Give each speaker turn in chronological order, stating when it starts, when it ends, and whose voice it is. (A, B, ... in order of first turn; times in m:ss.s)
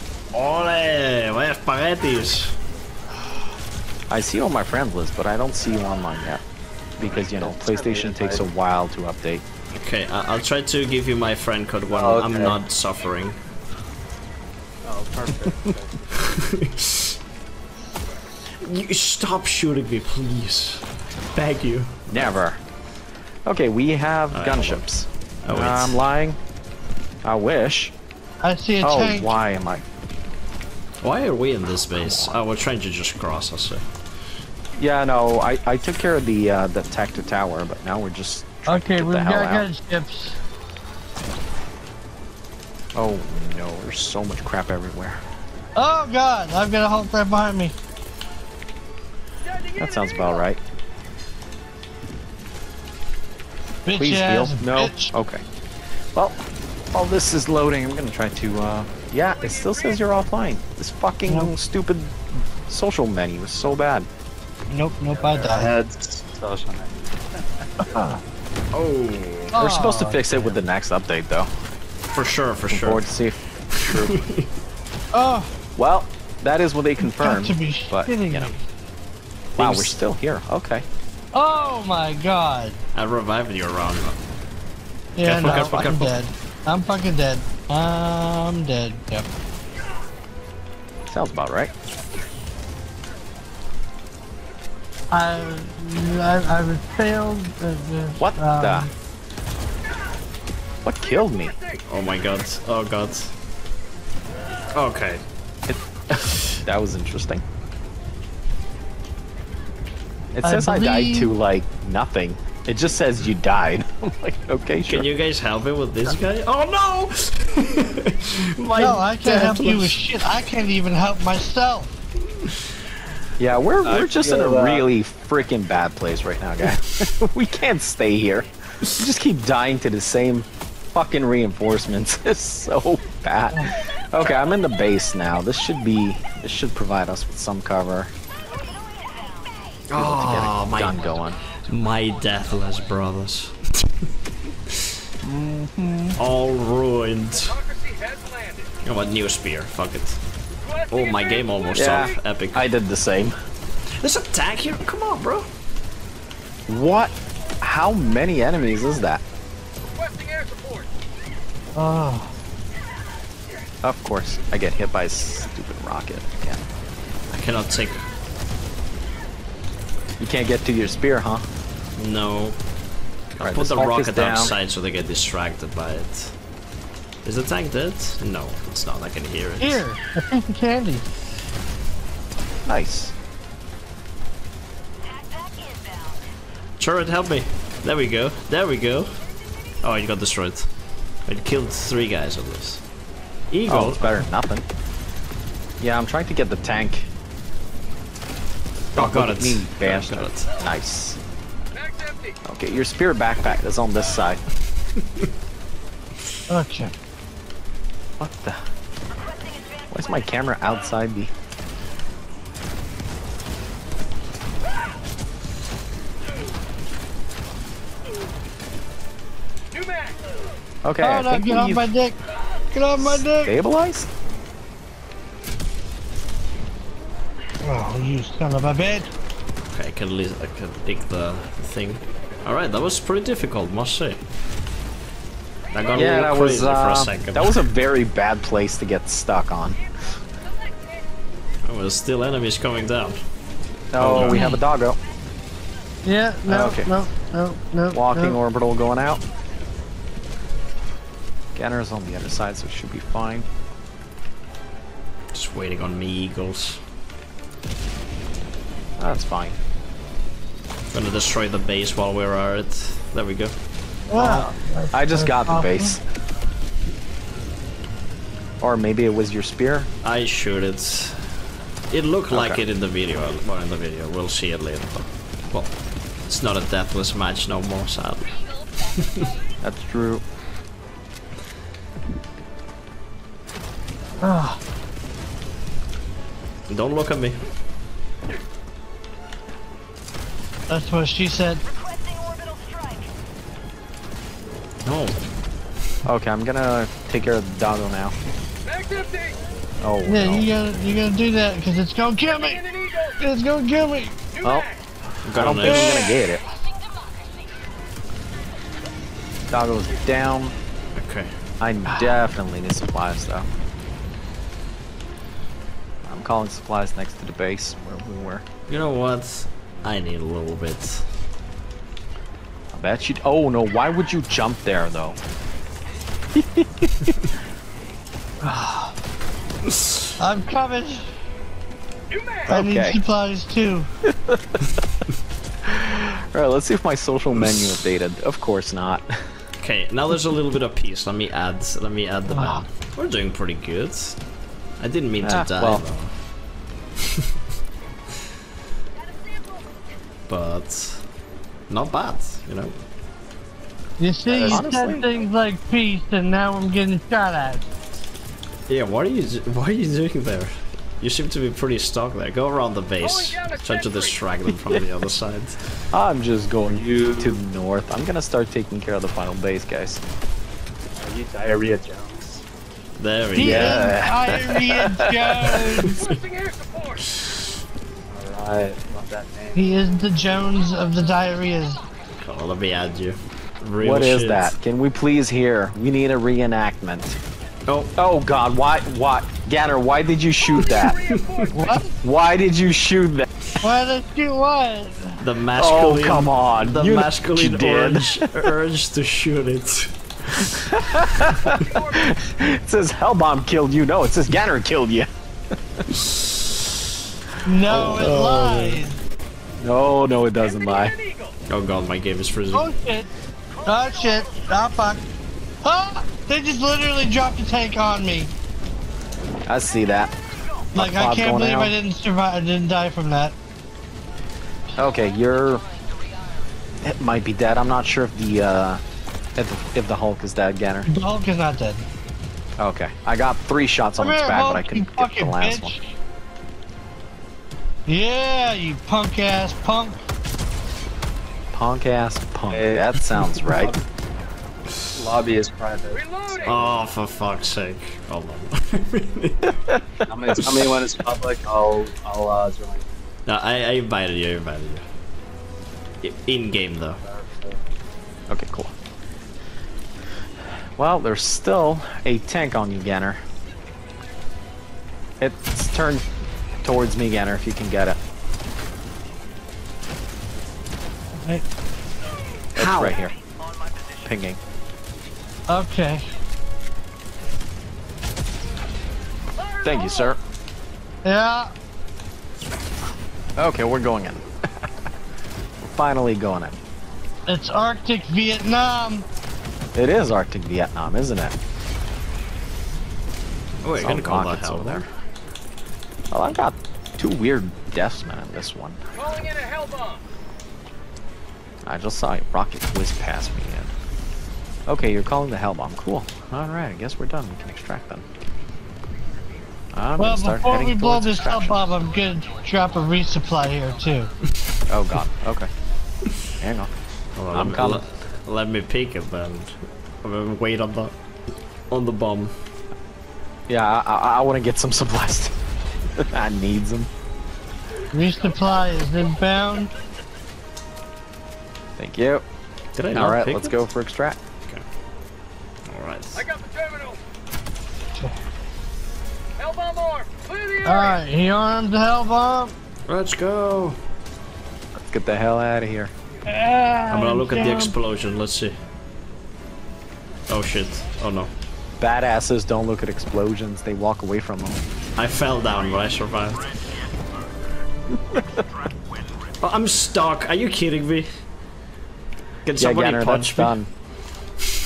0:00.3-0:02.6 A
0:04.1-0:06.4 B
0:07.0-0:09.4 B
0:07.3-0:08.4 C
0:09.7-0:13.4 A
0:11.9-0:12.6 C
0:14.8-0:16.0 C
0:16.2-0:17.1 A
0:18.6-0:22.4 A
0:22.1-0:22.6 B
0:23.4-0:26.4 B
0:24.3-0:24.8 A
0:25.4-0:26.0 A
0:27.2-0:27.9 B
0:28.4-0:29.3 D
0:28.8-0:29.8 B
0:31.0-0:33.8 A
0:31.7-0:32.4 B
0:34.8-0:39.7 B
0:38.7-0:40.4 D
0:43.0-0:45.2 B
0:45.8-0:47.8 D
0:49.8-0:50.6 B
0:53.9-0:55.1 D
0:54.0-0:55.4 B
0:56.9-1:04.1 B
1:01.3-1:01.5 D
1:04.7-1:05.7 D
1:05.3-1:07.2 C
1:08.7-1:09.6 A
1:09.5-1:10.4 D
1:09.6-1:11.5 B
1:12.1-1:13.0 A
1:12.7-1:14.3 B
1:13.7-1:14.5 A
1:15.1-1:15.5 D
1:15.8-1:18.5 B
1:17.0-1:18.6 D
1:19.6-1:20.0 A
1:19.6-1:20.8 B
1:21.3-1:22.8 D
1:23.0-1:24.2 A
1:25.2-1:29.3 D
1:25.2-1:26.1 A
1:31.1-1:31.7 B
1:35.1-1:38.9 D
1:38.2-1:38.9 B
1:40.8-1:41.6 B
1:41.9-1:43.3 A
1:44.7-1:45.2 A
1:45.7-1:47.4 B
1:50.3-1:55.1 B
1:50.4-1:51.4 D
1:54.9-2:00.0 A
1:58.7-2:02.0 D
2:03.4-2:18.1 B
2:03.8-2:04.9 C
2:19.9-2:21.0 A
2:19.9-2:21.4 B
2:21.6-2:23.9 A
2:25.2-2:26.2 B
2:26.2-2:27.6 A
2:27.6-2:28.7 E
2:28.8-2:30.2 A
2:30.7-2:32.0 E
2:30.9-2:32.7 A
2:31.7-2:33.4 B
2:34.0-2:35.5 A
2:36.7-2:39.2 B
2:40.0-2:40.9 E
2:41.8-2:42.3 D
2:43.8-2:46.6 B
2:47.3-2:48.0 A
2:50.2-2:51.5 B
2:52.0-2:52.6 A
2:53.4-2:56.4 A
2:53.4-2:54.5 B
2:57.2-2:59.8 A
2:59.6-3:01.0 D
3:02.6-3:03.1 B
3:06.8-3:09.1 A
3:09.8-3:10.7 A
3:11.3-3:12.8 A
3:13.5-3:14.2 A
3:13.7-3:14.6 B
3:15.8-3:17.1 B
3:19.0-3:20.5 A
3:19.0-3:21.2 B
3:21.8-3:22.4 E
3:22.4-3:24.4 B
3:26.5-3:26.9 D
3:28.2-3:28.6 B
3:29.9-3:31.3 B
3:40.8-3:41.8 B
3:41.0-3:42.2 D
3:42.7-3:43.5 D
3:43.0-3:44.1 B
3:47.6-3:49.1 D
3:49.7-3:54.2 A
3:55.7-3:57.6 A
3:55.9-3:59.8 B
4:01.6-4:03.2 A
4:03.9-4:05.0 B
4:04.0-4:04.6 A
4:04.2-4:04.6 D
4:06.0-4:08.4 D
4:06.5-4:06.9 B
4:07.9-4:09.2 B
4:11.6-4:13.5 B
4:15.3-4:16.8 A
4:19.0-4:19.6 B
4:20.9-4:23.6 A
4:24.1-4:26.0 D
4:24.2-4:26.0 B
4:28.6-4:29.9 B
4:30.0-4:31.3 A
4:31.9-4:35.7 A
4:32.3-4:32.6 B
4:36.3-4:38.4 A
4:39.6-4:40.2 B
4:44.2-4:44.6 D
4:46.7-4:47.4 A
4:50.7-4:51.6 D
4:54.8-4:55.2 A
4:56.0-4:58.2 B
4:58.7-4:59.4 E
4:59.8-5:00.5 B
5:00.1-5:02.6 D
5:02.8-5:03.0 E
5:03.2-5:04.2 D
5:04.4-5:04.7 B
5:05.2-5:06.4 B
5:05.2-5:06.0 A
5:05.7-5:06.0 D
5:09.5-5:10.6 B
5:11.0-5:11.3 A
5:11.6-5:13.5 B
5:16.0-5:18.4 B
5:18.7-5:21.1 A
5:22.7-5:25.2 B
5:26.3-5:27.1 B
5:28.4-5:29.0 D
5:29.7-5:30.0 A
5:30.2-5:31.1 D
5:32.1-5:32.5 E
5:32.5-5:33.9 D
5:32.5-5:33.0 B
5:34.0-5:34.6 B
5:35.6-5:39.3 B
5:39.6-5:44.2 A
5:42.3-5:42.6 D
5:44.8-5:46.1 A
5:45.2-5:45.8 B
5:50.3-5:51.0 A
5:51.7-5:52.8 A
5:54.0-5:57.6 D
5:54.3-5:55.1 B
5:58.7-6:05.8 A
6:03.2-6:04.1 E
6:05.9-6:10.0 B
6:06.7-6:07.4 C
6:11.0-6:12.4 C
6:13.0-6:13.9 A
6:13.4-6:15.9 D
6:13.4-6:15.8 B
6:16.0-6:17.0 E
6:18.0-6:19.7 C
6:19.6-6:21.8 D
6:22.2-6:24.5 A
6:23.8-6:27.2 B
6:27.7-6:27.9 A
6:28.0-6:31.0 B
6:30.6-6:31.8 E
6:31.5-6:31.9 D
6:32.0-6:33.3 B
6:33.6-6:35.2 D
6:35.2-6:40.6 A
6:35.6-6:38.5 B
6:40.4-6:45.1 B
6:41.6-6:42.0 E
6:47.4-6:49.0 D
6:47.7-6:48.8 B
6:47.9-6:48.4 A
6:49.6-6:51.0 B
6:51.0-6:51.3 E
6:51.5-6:52.7 A
6:52.5-6:53.1 D
6:53.6-6:55.0 D
6:55.6-6:58.3 D
6:59.5-7:00.1 B
7:00.7-7:01.8 B
7:00.8-7:03.4 D
7:04.8-7:05.6 B
7:06.8-7:08.8 B
7:09.4-7:10.9 B
7:10.9-7:11.9 D
7:12.6-7:15.7 B
7:14.0-7:15.9 D
7:17.9-7:20.1 D
7:21.5-7:23.7 B
7:22.5-7:23.8 C
7:24.9-7:26.8 C
7:26.1-7:26.5 E
7:26.4-7:29.6 A
7:30.1-7:32.9 C
7:33.3-7:34.8 A
7:36.0-7:37.0 A
7:37.0-7:37.6 C
7:38.3-7:38.7 B
7:40.8-7:43.2 B
7:45.2-7:46.1 B
7:46.6-7:48.0 B
7:51.1-7:51.4 D
7:52.6-7:53.1 B
7:52.6-7:53.0 A
7:54.0-7:54.4 B
7:55.5-7:56.1 D
7:59.6-8:00.2 B
8:01.0-8:01.5 D
8:03.4-8:04.3 B
8:05.6-8:06.6 B
8:07.3-8:09.0 D
8:09.8-8:11.4 B
8:13.6-8:14.9 A
8:13.8-8:14.9 B
8:16.1-8:18.8 B
8:19.0-8:20.0 E
8:21.6-8:23.7 B
8:24.7-8:28.0 B
8:29.7-8:31.8 B
8:30.0-8:34.1 D
8:34.7-8:35.5 B
8:36.4-8:36.7 B
8:37.2-8:41.0 A
8:37.3-8:37.8 B
8:41.7-8:42.4 A
8:43.5-8:45.4 B
8:46.0-8:46.9 B
8:47.9-8:49.7 D
8:51.8-8:52.2 B
8:52.8-8:53.6 A
8:52.9-8:54.2 B
8:55.7-8:56.2 A
8:56.3-8:56.9 E
8:59.4-9:00.9 E
9:00.6-9:02.6 D
9:02.9-9:03.8 A
9:04.9-9:05.9 B
9:06.2-9:07.8 D
9:06.9-9:08.6 A
9:10.3-9:11.3 A
9:11.8-9:14.6 B
9:15.0-9:16.6 A
9:19.4-9:21.1 A
9:22.5-9:23.6 A
9:22.6-9:23.7 B